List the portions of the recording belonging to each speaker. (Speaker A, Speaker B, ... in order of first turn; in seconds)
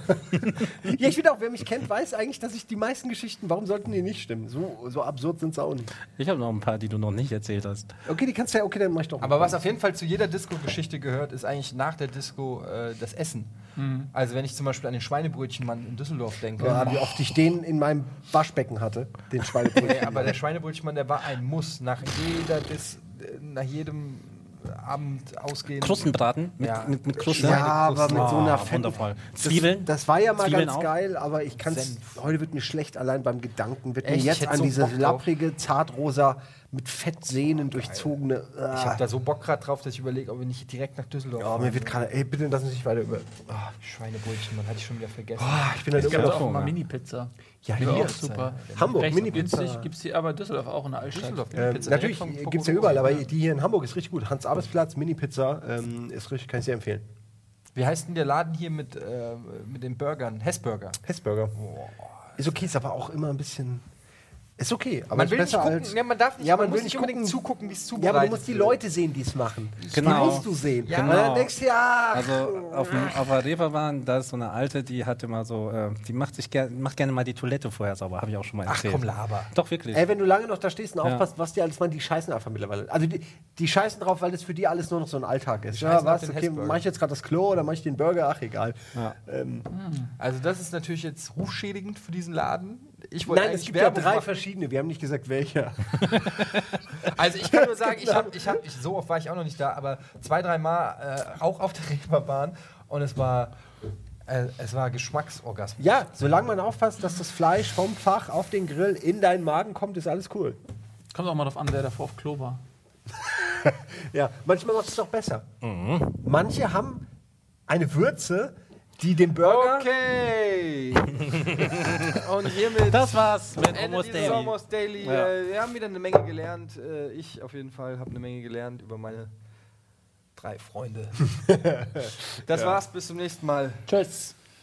Speaker A: 0.1-5.9, 8.1-9.7, 16.6-20.4, 27.3-39.0, 41.4-43.5, 45.4-46.4, 47.6-49.9, 51.5-57.1, 61.0-61.6, 62.4-63.9, 64.6-67.4, 68.0-73.3, 79.9-89.7, 93.3-98.6, 105.8-110.6, 113.2-115.5, 116.1-117.1, 117.7-119.9, 131.5-132.1
Speaker B: 6.1-7.9, 25.8-30.9, 45.9-46.8, 69.9-71.5, 72.1-80.1, 115.6-116.1, 121.2-122.2, 122.7-125.3
Speaker C: 9.2-13.5, 14.1-17.1, 19.8-28.9, 31.6-32.2, 34.0-35.3, 37.7-38.1, 38.7-42.0, 43.5-45.7, 47.8-49.2, 51.1-53.3, 57.8-61.0, 61.6-62.4, 65.2-68.8, 69.8-71.4, 78.7-79.5, 85.8-86.8, 90.2-94.3, 97.0-103.6, 104.3-106.0, 119.4-129.3, 130.4-131.4, 132.2-133.9
Speaker D: 13.8-14.1, 46.0-51.8, 89.7-90.1, 111.1-112.6, 133.9-134.4